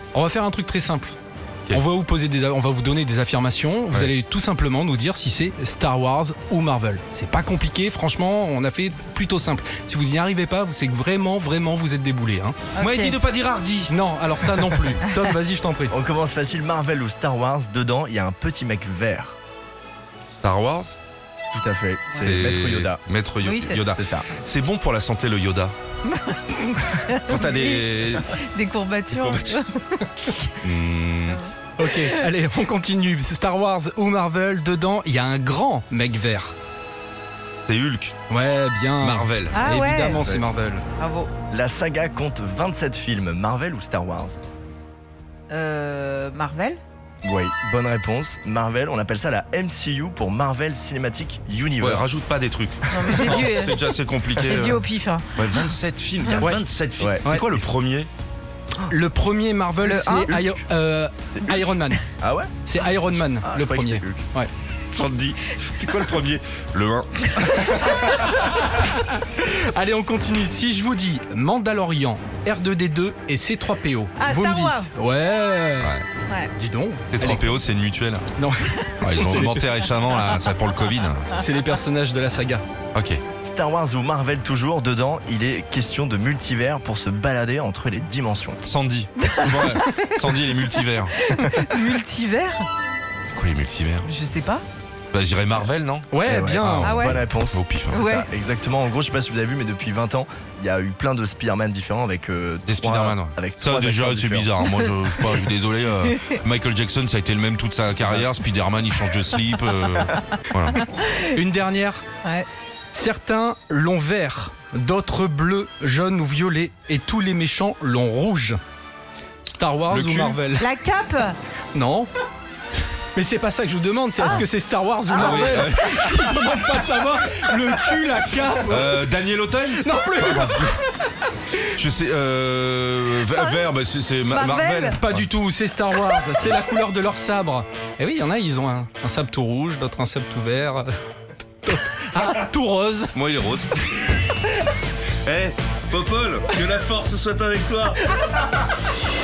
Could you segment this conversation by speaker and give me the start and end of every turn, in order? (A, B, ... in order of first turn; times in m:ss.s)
0:00.1-0:01.1 A
0:01.7-0:12.6 A
0:12.8-0:13.2 B
0:12.8-0:13.9 C
0:13.9-0:15.9 A
0:15.9-0:19.4 D
0:20.3-0:21.0 C
0:21.5-0:23.0 D
0:22.2-0:25.7 C
0:23.4-0:23.9 B
0:23.9-0:24.3 D
0:26.1-0:30.5 B
0:27.3-0:28.3 C
0:29.1-0:29.6 C
0:30.6-0:31.4 C
0:31.8-0:36.5 A
0:37.6-0:38.2 C
0:38.3-0:40.8 A
0:39.0-0:40.5 C
0:39.5-0:40.2 B
0:41.0-0:41.3 B
0:41.5-0:44.4 D
0:45.5-0:46.8 B
0:47.2-0:52.2 D
0:51.8-0:58.1 C
0:52.9-0:53.9 B
0:54.4-0:54.8 D
0:54.4-0:55.2 B
0:56.5-0:57.3 D
0:58.8-1:02.0 A
0:59.8-1:00.4 B
1:00.3-1:00.6 D
1:02.2-1:02.5 D
1:02.6-1:04.5 A
1:03.4-1:04.2 D
1:04.9-1:08.1 C
1:07.6-1:16.0 A
1:14.2-1:14.9 B
1:16.5-1:17.6 A
1:17.1-1:18.3 C
1:18.4-1:19.6 A
1:19.0-1:21.4 C
1:21.3-1:22.6 A
1:22.9-1:23.2 C
1:23.4-1:28.6 D
1:28.6-1:31.2 C
1:29.2-1:30.5 B
1:31.2-1:32.7 B
1:33.3-1:34.1 C
1:34.0-1:34.6 B
1:35.1-1:38.1 C
1:36.1-1:37.2 A
1:36.2-1:44.6 D
1:36.8-1:37.2 B
1:37.9-1:38.3 B
1:42.6-1:50.8 C
1:48.0-1:48.3 D
1:50.7-1:51.2 B
1:51.3-1:52.0 A
1:52.9-1:58.6 A
1:59.4-2:00.7 A
1:59.9-2:00.4 C
2:00.6-2:01.4 B
2:01.7-2:02.1 A
2:03.1-2:09.0 A
2:04.2-2:04.4 B
2:05.1-2:06.5 C
2:05.2-2:05.7 B
2:08.6-2:10.7 C
2:09.8-2:10.9 A
2:11.7-2:15.3 C
2:13.4-2:13.7 B
2:14.3-2:15.0 B
2:15.0-2:20.9 A
2:21.6-2:23.2 A
2:23.2-2:24.1 C
2:25.2-2:28.2 C